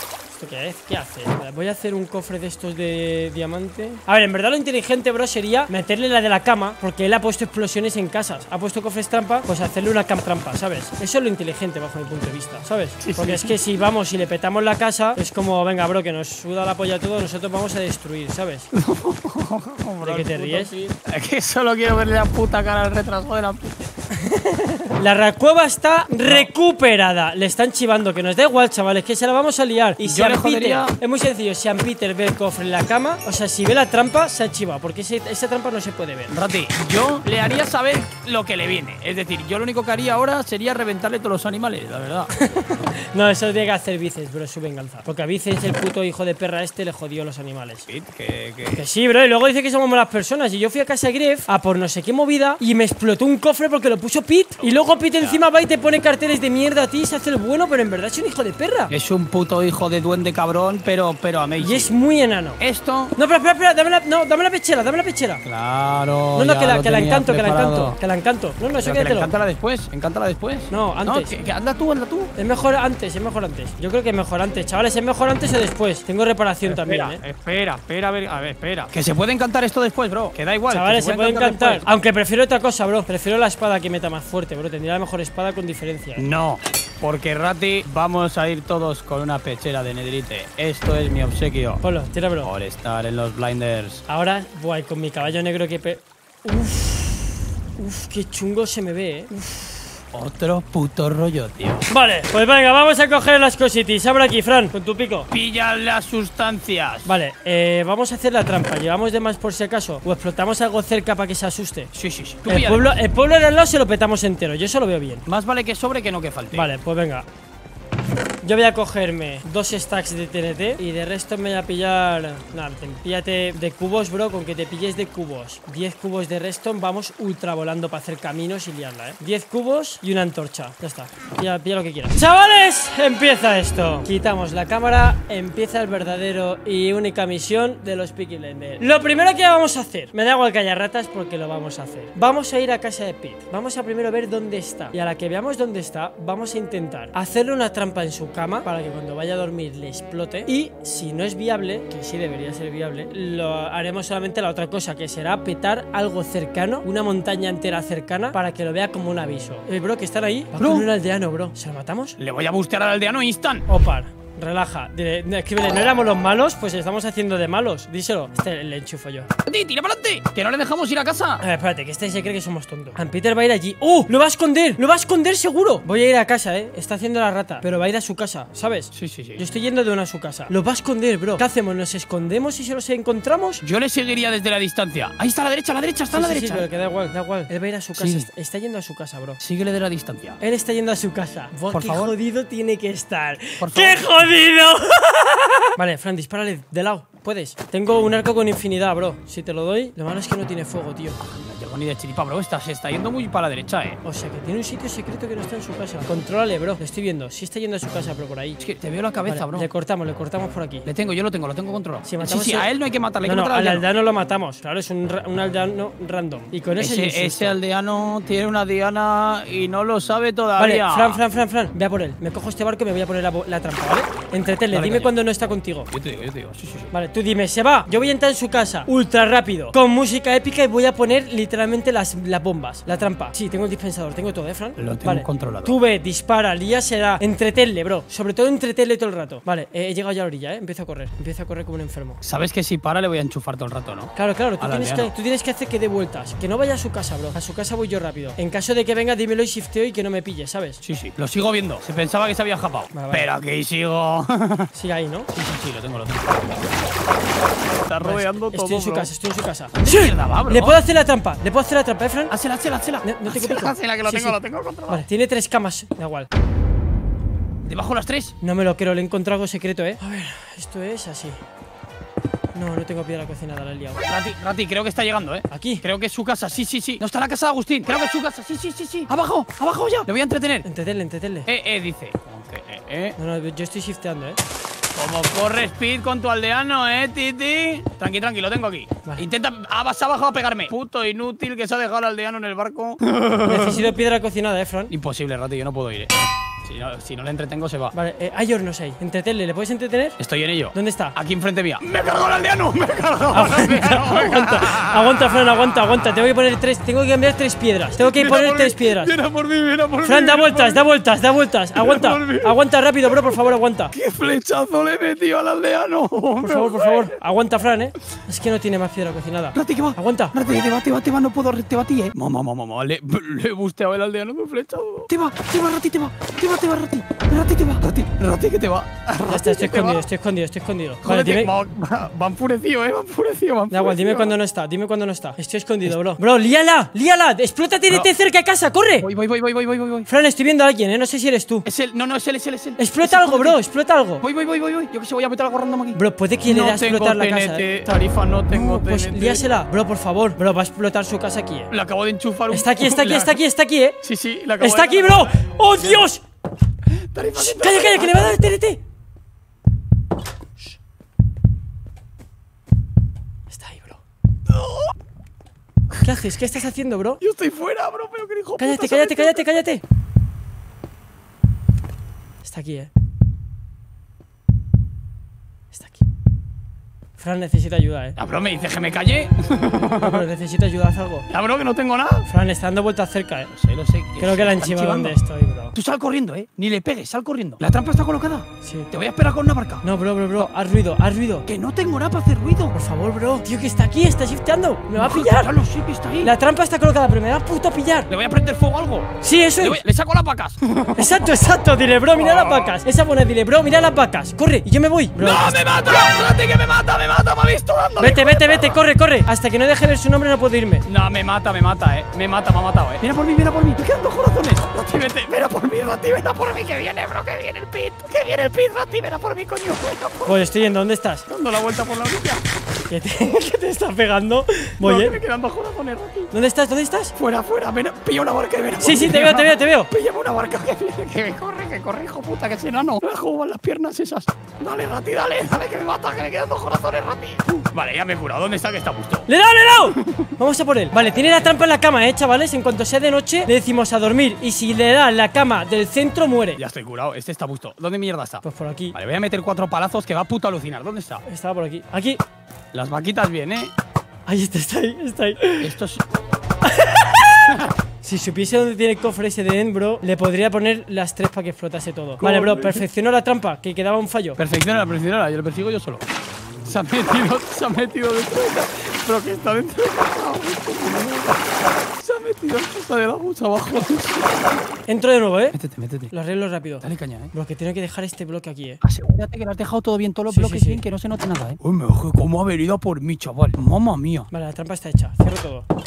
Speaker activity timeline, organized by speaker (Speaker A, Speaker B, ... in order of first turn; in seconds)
Speaker A: 0.3-18.7, 20.0-20.7, 24.2-36.3, 42.3-47.9, 48.7-58.9, 61.6-62.6, 63.1-65.4, 66.3-69.3, 70.7-71.4, 72.3-77.2, 80.7-86.2, 91.8-92.5, 94.1-99.9, 101.9-105.3, 107.0-111.9, 112.5-115.2, 116.5-117.2, 118.4-162.2, 163.7-169.3, 171.4-183.6, 186.1-189.4, 190.4-201.2, 204.0-208.6, 209.2-210.9, 212.0-212.7, 213.2-217.5, 220.6-225.9, 226.9-242.2, 244.2-250.8, 252.9-253.3, 254.7-255.3, 258.0-262.3, 263.0-264.4, 264.9-266.3, 268.4-271.4, 272.5-274.0, 275.5-275.8, 280.6-281.5, 283.2-284.4, 293.4-294.9, 297.9-300.2, 300.7-301.1, 303.3-309.1, 310.0-313.9, 316.4-320.3, 329.3-331.5, 333.7-339.1, 340.1-341.6, 342.8-344.2, 345.9-347.7, 348.5-351.7, 352.5-354.0, 354.6-356.2, 357.4-358.8, 363.5-364.0, 366.0-367.2, 368.6-369.8, 372.4-372.9, 375.7-376.0, 377.2-378.2, 379.9-381.2, 382.3-383.5, 384.2-385.7, 388.6-388.9, 389.8-391.4, 392.7-395.5, 396.2-398.1, 399.2-399.8, 400.9-405.7, 408.0-410.8, 420.2-421.3, 422.9-425.2, 426.3-427.1, 428.8-429.9, 439.3-446.6, 448.4-448.9, 451.2-452.2, 454.3-455.7, 456.6-457.5, 458.0-464.4, 474.9-475.6, 476.1-478.8, 480.3-480.8, 484.3-485.6
Speaker B: 13.0-13.6, 18.7-23.9, 30.0-30.9, 36.3-42.3, 47.9-48.8, 54.6-55.4, 58.9-61.9, 62.6-63.1, 65.4-68.0, 68.8-72.3, 76.6-81.8, 86.2-91.8, 92.4-94.0, 100.1-101.9, 105.3-107.0, 111.9-112.9, 115.2-116.7, 160.6-160.9, 162.2-163.7, 169.4-171.4, 178.9-179.4, 183.6-186.7, 188.0-188.3, 189.4-190.4, 191.7-192.1, 193.6-194.2, 201.2-204.0, 208.6-209.7, 210.8-213.8, 216.8-221.2, 224.7-225.1, 225.9-226.9, 234.8-235.8, 242.2-245.1, 250.8-254.7, 255.3-256.6, 257.8-259.1, 259.7-260.8, 262.3-265.0, 267.6-268.4, 274.1-280.6, 281.4-283.1, 284.9-293.9, 294.9-296.1, 296.6-297.9, 300.2-306.0, 308.0-310.8, 311.8-313.4, 313.9-317.1, 319.5-330.0, 331.0-334.3, 339.0-340.1, 341.6-343.6, 344.2-349.5, 351.7-353.4, 354.0-356.0, 357.0-358.5, 364.5-364.9, 367.2-369.6, 378.2-380.3, 381.3-382.2, 383.5-385.2, 385.7-389.8, 391.5-392.7, 394.9-396.3, 398.1-401.3, 402.2-402.7, 405.2-408.8, 410.9-420.4, 421.3-422.4, 424.8-426.3, 427.1-439.3, 439.9-440.3, 446.6-448.4, 448.9-451.2, 452.7-453.7, 455.6-456.0, 462.2-462.8, 464.4-466.0, 466.6-474.6, 475.5-476.1, 476.8-477.3, 478.8-484.3